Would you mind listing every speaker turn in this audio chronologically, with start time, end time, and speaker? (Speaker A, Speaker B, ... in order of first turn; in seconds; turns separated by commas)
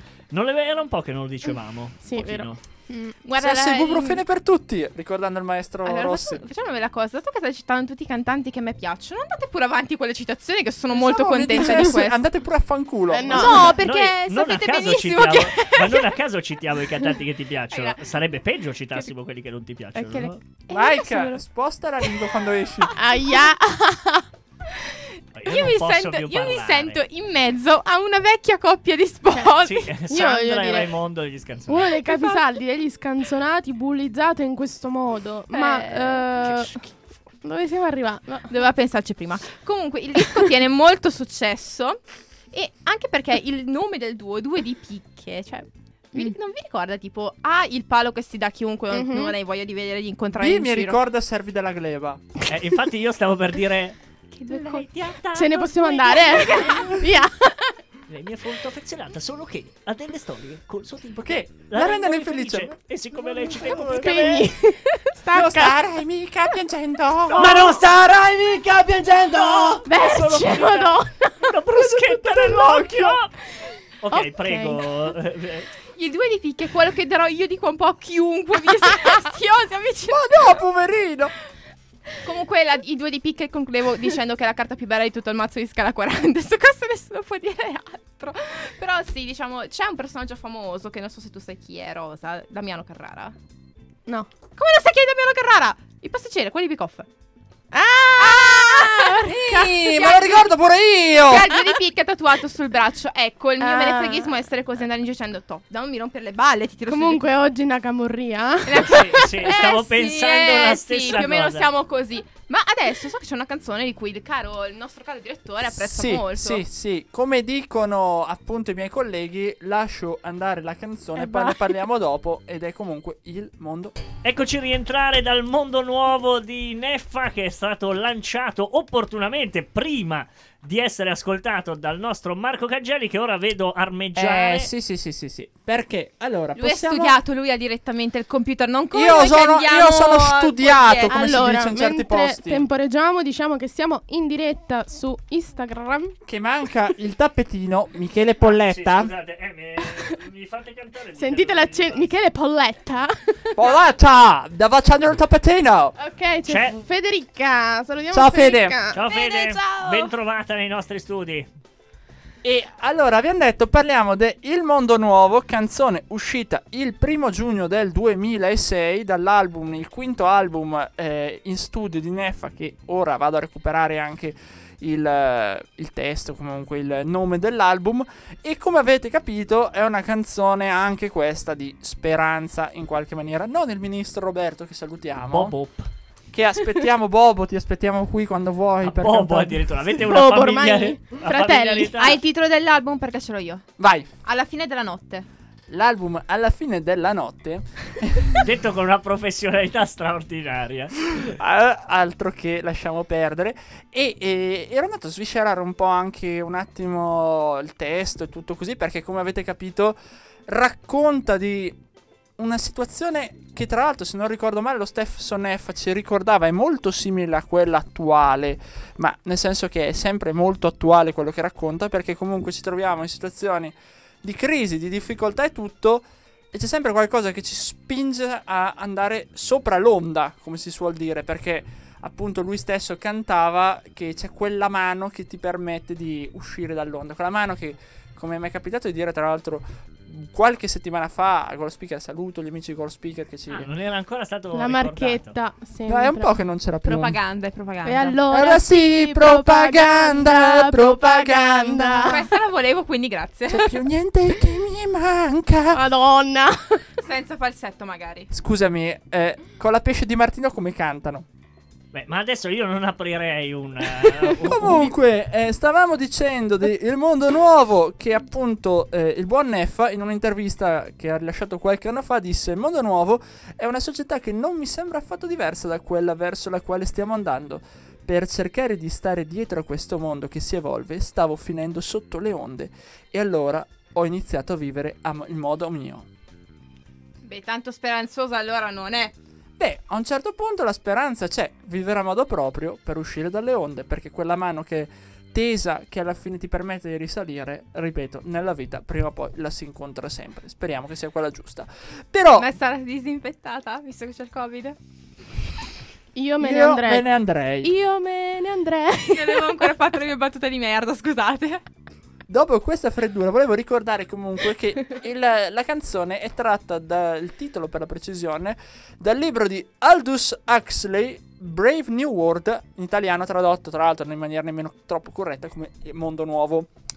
Speaker A: 0.3-2.6, Speaker B: 2.0-3.1, Speaker C: 3.2-4.2, Speaker D: 3.4-6.4, Speaker C: 5.8-12.2, Speaker D: 10.9-13.8, Speaker B: 13.1-13.7, Speaker C: 13.3-16.1, Speaker A: 13.8-20.4, Speaker C: 17.7-18.0, Speaker B: 19.9-20.3, Speaker C: 20.7-21.4, Speaker D: 20.7-22.9, Speaker B: 22.9-24.2, Speaker A: 25.3-27.0, Speaker C: 25.4-29.9, Speaker A: 29.6-31.9, Speaker B: 30.1-30.9, Speaker B: 31.7-36.8, Speaker C: 32.0-32.4, Speaker C: 35.5-36.2, Speaker A: 36.4-36.8, Speaker B: 37.4-38.5, Speaker C: 38.5-42.0, Speaker C: 42.5-51.0, Speaker B: 48.9-49.3, Speaker D: 50.4-52.2, Speaker A: 52.5-54.0, Speaker C: 54.3-55.2, Speaker A: 54.5-56.6, Speaker B: 55.3-57.7, Speaker C: 55.8-56.9, Speaker A: 58.1-64.5, Speaker D: 61.2-64.2, Speaker B: 63.9-65.7, Speaker D: 65.3-67.7, Speaker A: 67.3-67.8, Speaker E: 67.3-69.8, Speaker A: 69.3-73.3, Speaker B: 69.8-71.5, Speaker D: 71.8-73.2, Speaker A: 74.0-75.7, Speaker B: 74.1-74.8, Speaker C: 76.0-80.5, Speaker D: 80.1-81.3, Speaker C: 82.2-93.3, Speaker C: 94.5-97.1, Speaker B: 97.7-99.4, Speaker C: 98.2-100.5, Speaker D: 99.2-101.5, Speaker C: 101.2-107.2, Speaker B: 103.6-104.4, Speaker B: 106.9-109.5, Speaker C: 108.7-116.6, Speaker A: 108.8-111.7, Speaker D: 115.6-124.0, Speaker B: 121.2-121.7, Speaker A: 124.2-134.7, Speaker D: 134.1-137.2, Speaker C: 136.6-141.3, Speaker D: 138.9-142.7, Speaker B: 141.1-146.2, Speaker D: 146.2-149.1, Speaker A: 148.4-152.1, Speaker B: 149.8-150.1, Speaker B: 151.2-153.6, Speaker D: 153.6-155.9, Speaker B: 156.0-159.0, Speaker A: 156.5-156.8, Speaker D: 158.1-158.8, Speaker A: 158.9-161.5, Speaker C: 159.1-160.1, Speaker D: 162.4-185.5, Speaker A: 185.3-185.9, Speaker D: 186.3-189.7, Speaker A: 188.8-192.2, Speaker B: 190.1-191.9, Speaker C: 191.9-193.7, Speaker D: 193.8-194.1, Speaker C: 194.2-195.3, Speaker D: 195.7-198.4, Speaker A: 198.4-201.3, Speaker D: 201.2-211.8, Speaker D: 212.4-243.7, Speaker A: 243.5-245.3, Speaker B: 244.5-246.3, Speaker D: 245.9-247.2, Speaker C: 246.8-248.2, Speaker B: 247.8-252.2, Speaker D: 248.3-252.3, Speaker C: 252.0-253.7, Speaker D: 253.5-255.8, Speaker B: 255.7-256.9, Speaker C: 257.0-258.3, Speaker D: 258.3-261.3, Speaker A: 261.9-264.9, Speaker D: 264.4-286.1, Speaker C: 287.2-289.1, Speaker D: 289.6-302.5, Speaker C: 302.3-304.8, Speaker B: 306.1-307.0, Speaker D: 306.4-307.7, Speaker B: 307.6-309.7, Speaker C: 309.1-311.6, Speaker D: 312.3-326.7